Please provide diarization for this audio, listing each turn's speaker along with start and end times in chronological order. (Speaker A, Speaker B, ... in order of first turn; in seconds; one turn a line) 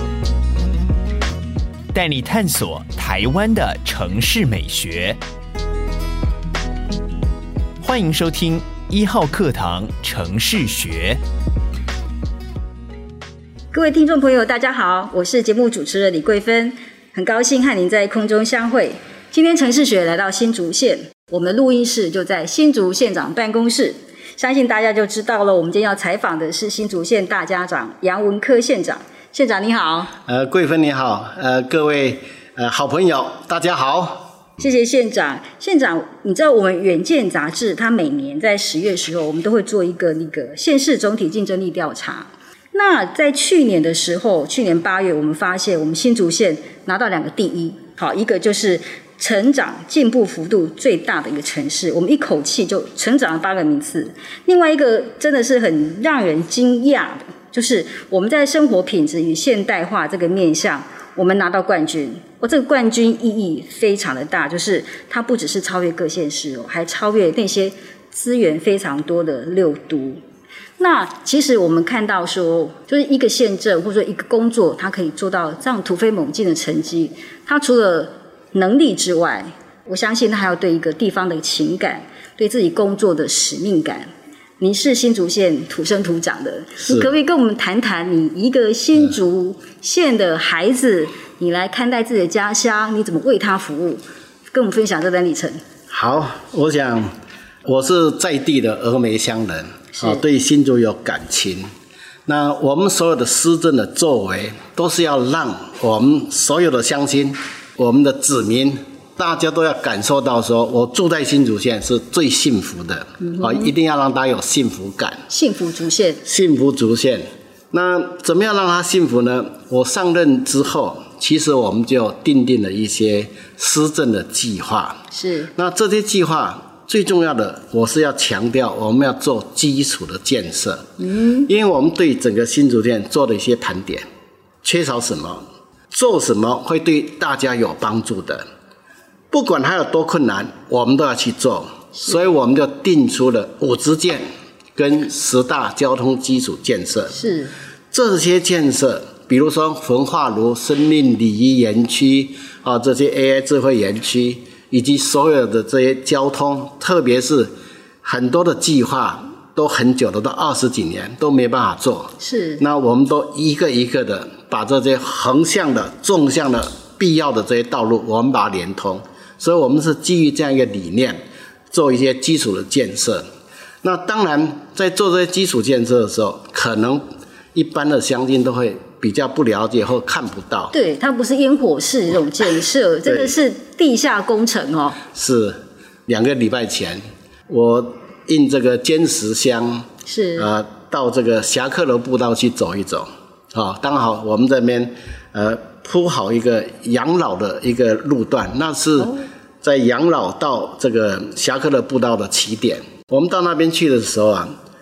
Speaker A: 1.9-5.2
Speaker A: 7.8-11.2
Speaker B: 13.7-30.1
Speaker C: 30.2-34.2
Speaker B: 34.6-70.2
Speaker B: 70.8-95.6
Speaker C: 86.8-87.1
Speaker C: 95.9-97.1
Speaker C: 97.6-101.7
Speaker B: 99.9-100.2
Speaker C: 102.2-115.2
Speaker B: 113.2-113.7
Speaker B: 115.3-116.2
Speaker C: 116.2-125.0
Speaker B: 125.1-125.5
Speaker C: 125.5-130.9
Speaker B: 131.0-131.5
Speaker C: 131.5-134.1
Speaker C: 134.6-138.4
Speaker C: 139.3-144.2
Speaker C: 144.8-147.2
Speaker B: 147.1-147.5
Speaker C: 147.9-157.5
Speaker C: 158.0-171.2
Speaker B: 162.2-162.6
Speaker C: 171.7-173.2
Speaker C: 173.8-180.7
Speaker B: 180.7-185.0
Speaker C: 183.1-183.3
Speaker C: 185.0-204.5
Speaker B: 190.1-190.5
Speaker B: 199.0-199.2